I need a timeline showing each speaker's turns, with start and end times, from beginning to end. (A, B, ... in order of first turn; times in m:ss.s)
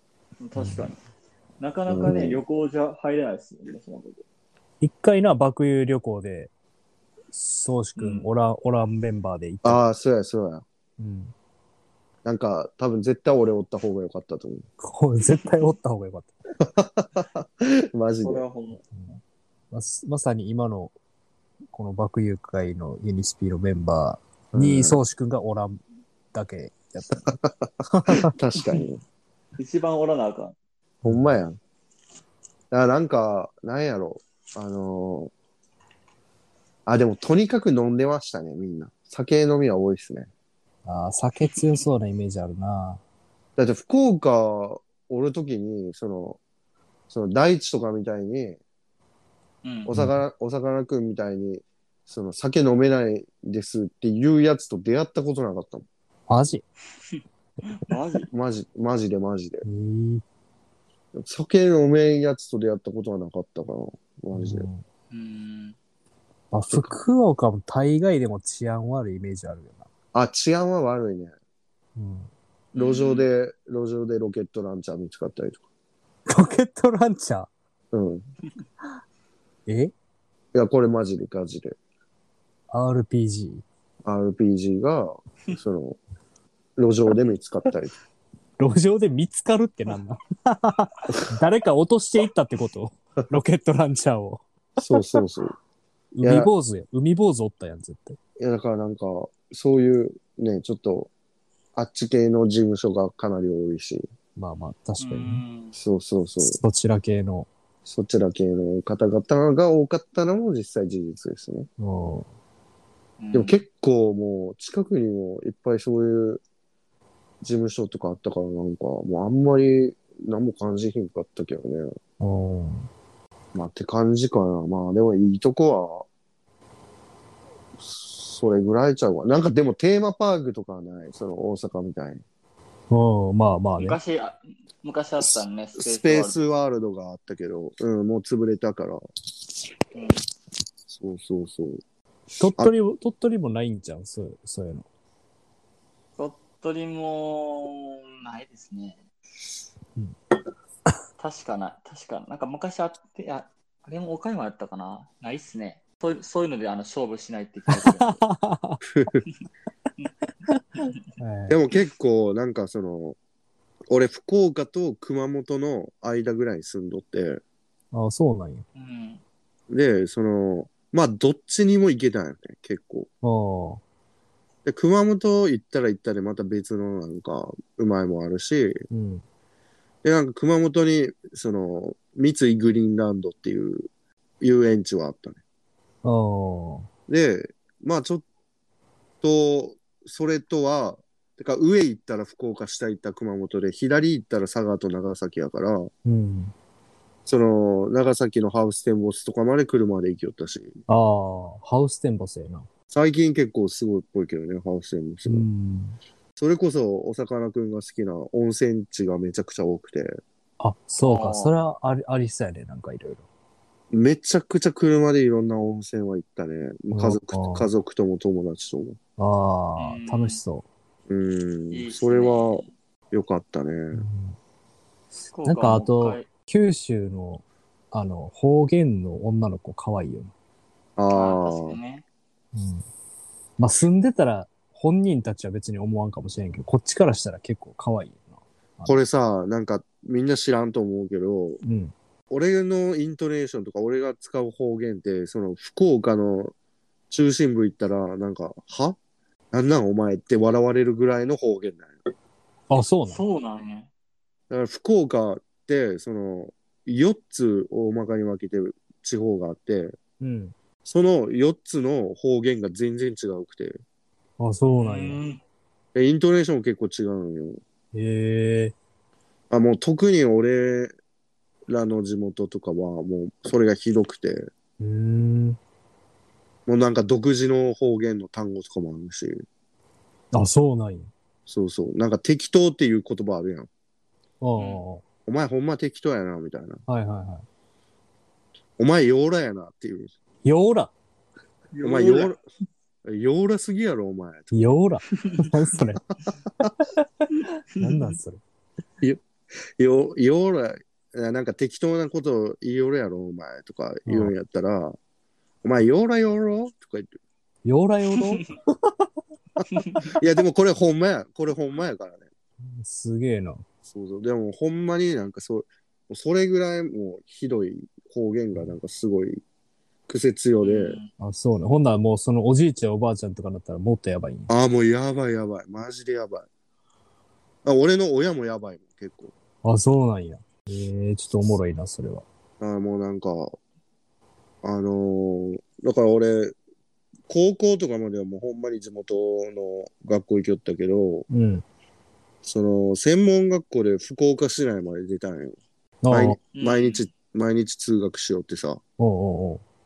0:00.4-0:01.0 A
0:00.6-0:00.9 B
0:01.6-0:04.2 A
0:01.9-0:02.4 C
0:04.8-0:06.5 B
0:07.3-0:09.8 B
0:08.0-0:08.3 A
0:09.6-0:10.6 C
0:11.0-0:11.3 B
0:12.2-0:14.7 C
0:14.8-0:16.3 B
0:16.6-0:18.4 C
0:18.2-0:18.8 A
0:19.0-0:20.9 B
0:21.7-0:25.8 B
0:24.5-0:25.0 C
0:26.3-0:27.4 B
0:27.1-0:29.0 C
0:27.9-0:28.3 B
0:29.6-0:30.6 A
0:31.0-0:31.6 C
0:31.0-0:31.4 B
0:32.7-0:35.3 C
0:36.9-0:40.3 C
0:40.8-0:43.0 B
0:41.5-0:41.8 A
0:43.6-0:46.4 C
0:47.1-0:48.6 C
0:49.6-0:49.9 A
0:49.9-0:55.8 C
0:49.9-0:50.2 B
0:56.3-0:56.6 B
0:57.1-0:58.3 A
0:58.3-0:59.6 C
0:59.6-1:00.2 B
1:01.2-1:04.7 C
1:04.4-1:04.8 B
1:05.1-1:05.8 A
1:06.5-1:09.9 B
1:06.7-1:07.0 C
1:10.1-1:11.4 C
1:12.0-1:12.3 B
1:12.8-1:13.3 A
1:12.8-1:15.6 C
1:16.3-1:17.5 B
1:17.9-1:18.3 C
1:19.7-1:19.9 B
1:20.5-1:21.8 C
1:22.7-1:23.6 B
1:24.0-1:26.0 C
1:26.8-1:27.9 C
1:28.6-1:35.2 B
1:34.8-1:35.6 C
1:36.2-1:38.2 B
1:36.2-1:36.5 C
1:38.4-1:41.1 C
1:41.8-1:44.1 C
1:44.4-1:45.4 B
1:45.0-1:45.8 A
1:45.8-1:46.6 C
1:46.4-1:47.5 B
1:47.9-1:51.7 C
1:51.8-1:52.3 B
1:53.2-1:53.6 A
1:53.3-1:56.4 C
1:57.4-2:02.0 C
2:02.2-2:02.9 B
2:03.6-2:06.1 C
2:07.8-2:12.2 C
2:12.9-2:14.0 B
2:13.8-2:16.4 A
2:15.8-2:19.0 C
2:20.0-2:20.2 A
2:20.9-2:21.8 C
2:22.4-2:24.9 B
2:22.4-2:22.7 C
2:26.2-2:29.0 A
2:31.2-2:38.2 A
2:37.7-2:38.8 B
2:38.9-2:39.2 C
2:41.2-2:41.6 B
2:41.5-2:43.2 C
2:43.9-2:47.4 C
2:47.9-2:48.6 B
2:48.8-2:49.2 A
2:49.7-2:53.1 C
2:53.2-2:53.8 B
2:54.6-2:58.9 C
2:58.9-2:59.2 B
3:00.0-3:03.9 C
3:04.4-3:05.4 C
3:06.0-3:06.9 B
3:07.1-3:08.2 C
3:09.2-3:15.9 C
3:16.0-3:16.5 B
3:17.3-3:20.8 C
3:20.9-3:22.7 B
3:22.9-3:25.5 C
3:25.3-3:26.0 B
3:26.4-3:30.2 C
3:30.6-3:33.2 B
3:31.0-3:31.5 A
3:33.9-3:39.0 C
3:36.9-3:37.7 B
3:39.2-3:40.7 B
3:39.8-3:40.4 A
3:41.1-3:44.0 C
3:41.7-3:42.7 A
3:43.9-3:44.4 B
3:45.3-3:46.3 A
3:45.4-3:50.3 B
3:51.0-3:51.8 C
3:51.1-3:52.0 A
3:52.5-3:52.8 B
3:53.6-3:59.0 B
3:58.9-4:01.6 C
4:01.6-4:01.9 B
4:02.3-4:06.5 C
4:07.1-4:09.0 C
4:09.5-4:12.0 C
4:12.7-4:13.2 B
4:13.1-4:13.9 A
4:14.5-4:19.9 C
4:20.2-4:20.5 B
4:20.8-4:23.8 C
4:24.4-4:25.2 B
4:24.7-4:25.4 A
4:26.0-4:27.6 C
4:27.9-4:28.8 B
4:29.5-4:30.9 C
4:31.7-4:34.5 C
4:34.8-4:35.6 B
4:36.7-4:39.4 C
4:40.3-4:41.1 B
4:41.5-4:43.7 C
4:44.4-4:45.0 B
4:45.3-4:46.8 C
4:46.9-4:47.4 B
4:48.8-4:50.1 C
4:50.4-4:50.9 B
4:51.7-4:52.4 A
4:51.8-4:52.4 C
4:53.0-4:54.5 C
4:54.5-4:56.0 B
4:55.2-4:55.5 A
4:57.4-4:58.2 A
4:57.8-4:58.4 B
4:59.8-5:05.0 C
5:04.1-5:04.3 B
5:05.6-5:07.1 C
5:07.6-5:08.5 B
5:08.2-5:08.5 A
5:09.7-5:10.1 A
5:10.2-5:12.3 C
5:12.7-5:13.6 B
5:13.9-5:19.4 C
5:20.1-5:21.0 C
5:20.6-5:21.1 A
5:21.2-5:24.5 B
5:24.5-5:26.5 C
5:27.6-5:29.3 C
5:29.6-5:32.3 B
5:32.6-5:33.6 C
5:34.6-5:36.5 C
5:37.3-5:41.3 C
5:41.3-5:41.6 B
5:42.4-5:45.6 C
5:46.0-5:46.4 B
5:46.1-5:48.8 C
5:46.5-5:47.1 A
5:49.0-5:49.6 B